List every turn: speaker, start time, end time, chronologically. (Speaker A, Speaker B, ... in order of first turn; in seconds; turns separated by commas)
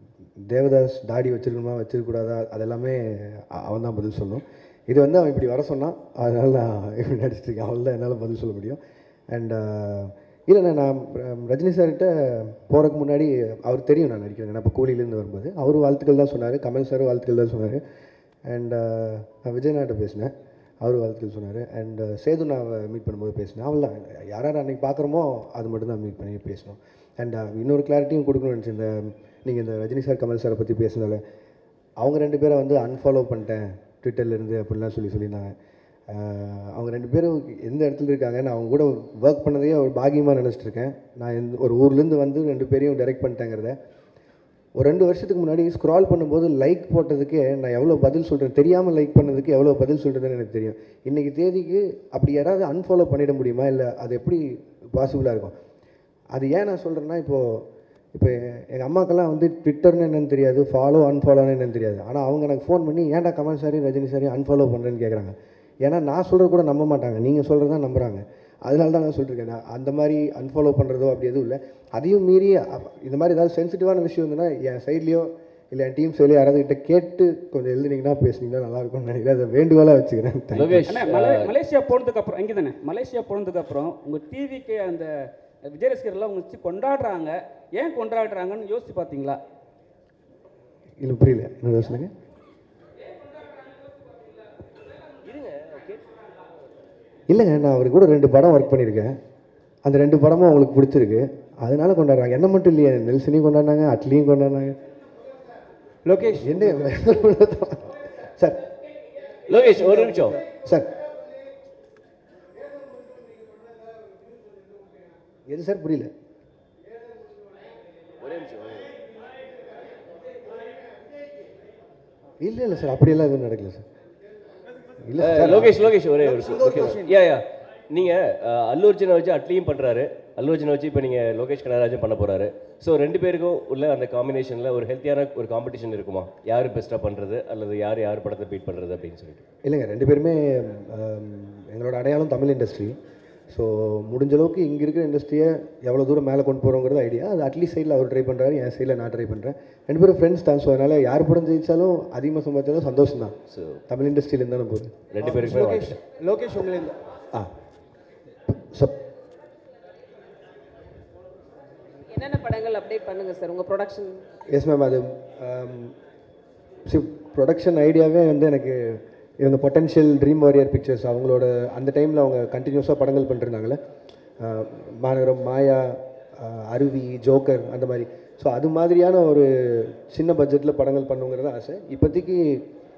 Speaker A: 0.4-8.8, Speaker A: 9.3-17.8, Speaker A: 18.4-31.2, Speaker A: 32.0-35.5, Speaker A: 36.1-43.8, Speaker A: 44.8-55.5, Speaker A: 56.3-80.9, Speaker B: 80.5-81.5, Speaker C: 80.9-85.1, Speaker C: 85.7-89.4, Speaker A: 91.0-92.1, Speaker B: 95.2-96.2, Speaker A: 97.3-99.2, Speaker A: 99.8-104.8, Speaker D: 106.0-106.9, Speaker A: 106.3-108.6, Speaker B: 109.5-110.4, Speaker D: 109.7-110.3, Speaker A: 110.6-110.9, Speaker A: 115.5-116.1, Speaker B: 118.2-119.0, Speaker A: 122.4-123.8, Speaker A: 125.0-125.9, Speaker B: 125.2-139.4, Speaker D: 126.2-127.2, Speaker A: 139.6-143.0, Speaker A: 143.5-153.3, Speaker B: 153.5-153.8, Speaker A: 153.9-155.0, Speaker B: 155.1-156.0, Speaker D: 155.2-157.0, Speaker A: 158.5-159.0, Speaker E: 162.1-164.2, Speaker A: 164.5-165.9, Speaker A: 166.8-173.8, Speaker A: 174.4-182.7